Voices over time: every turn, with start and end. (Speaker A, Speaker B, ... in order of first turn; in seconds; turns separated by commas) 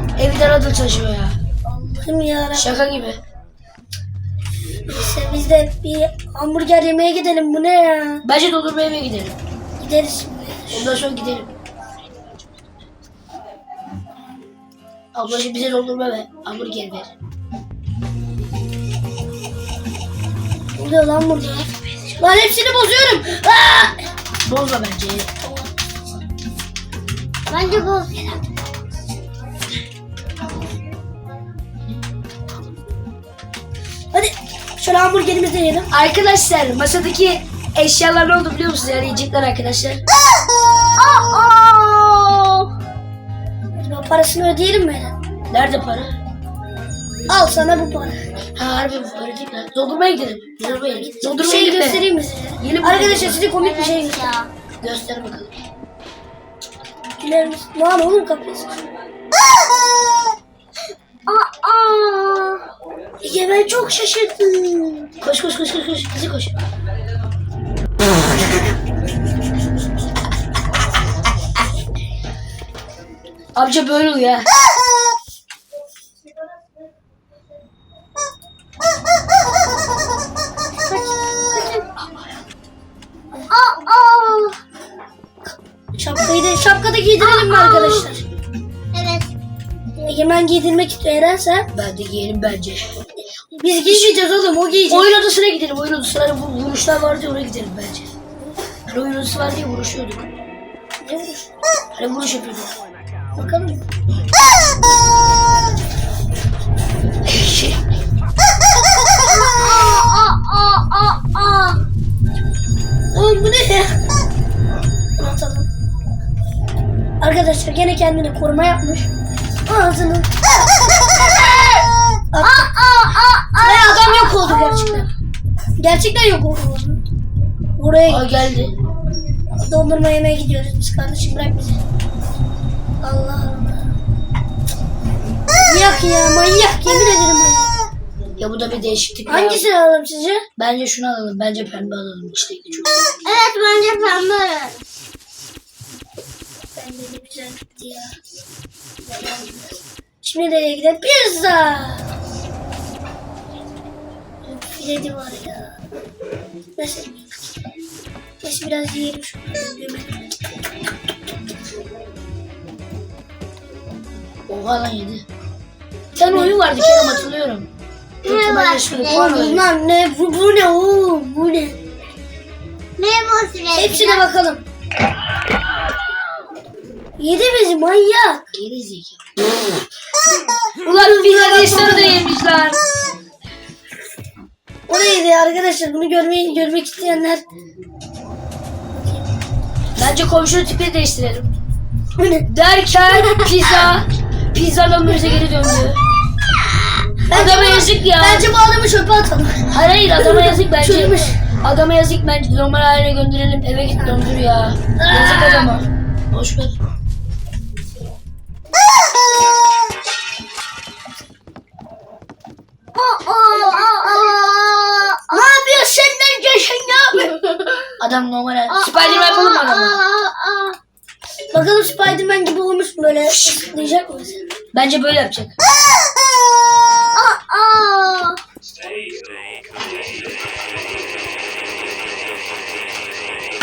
Speaker A: 0.2-1.4, Speaker B: 1.7-2.7, Speaker A: 2.5-3.2, Speaker B: 4.9-8.2, Speaker A: 8.2-9.4, Speaker B: 9.8-11.0, Speaker A: 10.7-11.5, Speaker A: 15.1-17.1, Speaker B: 20.7-24.0, Speaker A: 24.4-25.3, Speaker B: 25.4-25.7, Speaker C: 27.5-28.5, Speaker B: 34.1-35.9, Speaker A: 35.9-40.0, Speaker C: 41.0-42.7, Speaker B: 43.8-45.1, Speaker A: 45.5-46.1, Speaker B: 47.3-48.2, Speaker A: 48.5-52.0, Speaker C: 50.6-51.2, Speaker B: 51.3-54.3, Speaker A: 52.6-53.4, Speaker C: 53.6-54.5, Speaker A: 54.8-55.5, Speaker B: 57.2-58.8, Speaker C: 61.3-62.6, Speaker B: 63.2-65.1, Speaker A: 65.2-66.5, Speaker A: 73.5-74.5, Speaker C: 80.8-81.9, Speaker C: 83.5-84.6, Speaker B: 85.9-88.2, Speaker C: 87.2-88.1, Speaker C: 88.9-89.3, Speaker B: 90.0-91.7, Speaker A: 91.7-93.0, Speaker B: 93.5-95.1, Speaker A: 93.9-94.2, Speaker A: 94.9-98.1, Speaker A: 98.9-100.3, Speaker B: 101.0-101.5, Speaker A: 101.9-102.7, Speaker B: 103.3-103.8, Speaker A: 107.3-107.7, Speaker C: 109.2-111.8, Speaker B: 113.1-114.0, Speaker B: 115.2-115.7, Speaker B: 117.2-119.1, Speaker B: 119.7-122.7, Speaker C: 122.4-125.0, Speaker B: 123.6-125.1, Speaker B: 125.8-127.0, Speaker B: 127.8-128.3, Speaker A: 128.1-128.7, Speaker B: 129.6-131.8, Speaker B: 133.0-133.8, Speaker B: 135.6-137.7, Speaker A: 138.4-139.7, Speaker B: 139.2-140.4, Speaker A: 140.6-143.2, Speaker C: 143.2-144.8, Speaker B: 146.8-148.1, Speaker B: 150.2-152.0, Speaker B: 154.4-155.8, Speaker B: 156.8-157.3, Speaker B: 158.4-160.3, Speaker A: 164.5-165.2, Speaker A: 166.1-167.7, Speaker C: 168.2-169.4, Speaker A: 168.2-169.7, Speaker B: 169.0-171.8, Speaker C: 173.0-174.2, Speaker B: 173.7-174.6, Speaker B: 177.2-178.4, Speaker A: 178.5-179.3, Speaker B: 180.8-182.2, Speaker A: 180.8-182.8, Speaker B: 184.9-187.4, Speaker B: 188.9-189.3, Speaker A: 189.9-191.5, Speaker B: 192.2-192.5, Speaker A: 192.5-196.0, Speaker B: 197.2-201.4, Speaker A: 197.3-198.5, Speaker A: 199.7-206.7, Speaker C: 205.0-205.7, Speaker C: 212.9-215.4, Speaker B: 215.3-217.4, Speaker A: 218.0-220.0, Speaker C: 218.7-220.8, Speaker B: 221.5-224.5, Speaker A: 223.2-223.6, Speaker A: 224.7-225.5, Speaker C: 227.2-228.4